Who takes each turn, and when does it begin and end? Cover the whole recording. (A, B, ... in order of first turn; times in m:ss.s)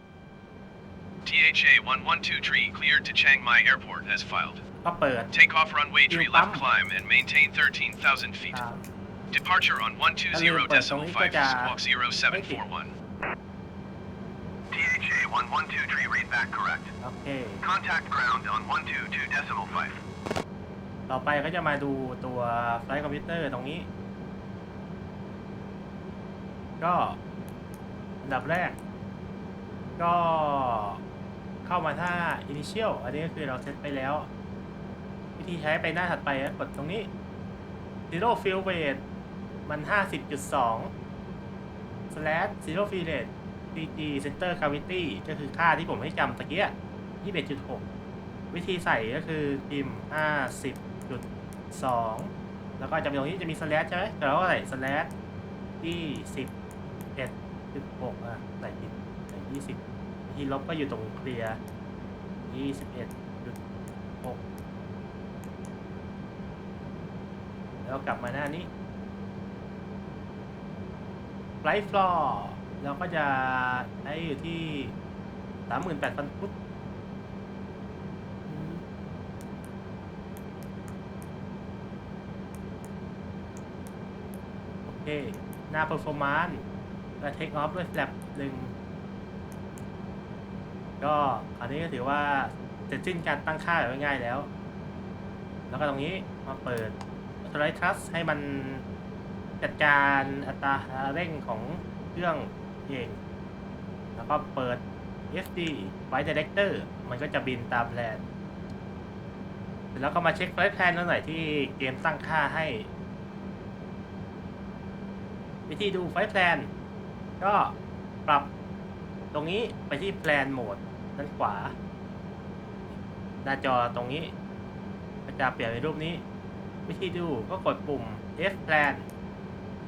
0:01.2-0:04.6 A
0:04.8-0:05.3 B
0:05.3-0:08.6 A
0:06.1-0:06.6 B
0:08.5-0:08.9 B
0:09.3-0:12.9 A
0:10.3-0:11.8 B
0:12.3-0:12.6 B
0:14.7-0:16.9 A
0:17.0-0:17.6 B
0:17.6-0:20.0 A
0:21.1-0:23.9 B
0:26.8-0:27.2 B
0:28.2-0:28.8 B
0:30.0-0:31.0 B
0:31.6-0:34.3 B
0:35.4-0:37.1 B
0:38.1-0:39.0 B
0:39.7-0:40.9 B
0:42.1-0:47.8 B
0:48.5-0:55.1 B
0:55.8-0:56.5 B
0:57.2-1:01.6 B
1:02.5-1:03.6 B
1:07.8-1:08.7 B
1:11.6-1:15.0 B
1:15.7-1:16.6 B
1:18.5-1:18.8 B
1:24.9-1:26.7 B
1:27.2-1:28.7 B
1:31.0-1:34.5 B
1:35.7-1:38.8 B
1:39.6-1:43.2 B
1:44.2-1:48.2 B
1:49.9-1:52.9 B
1:55.7-1:56.7 B
1:57.4-1:58.5 B
1:59.3-2:01.8 B
2:03.4-2:04.3 B
2:05.3-2:06.2 B
2:06.9-2:09.1 B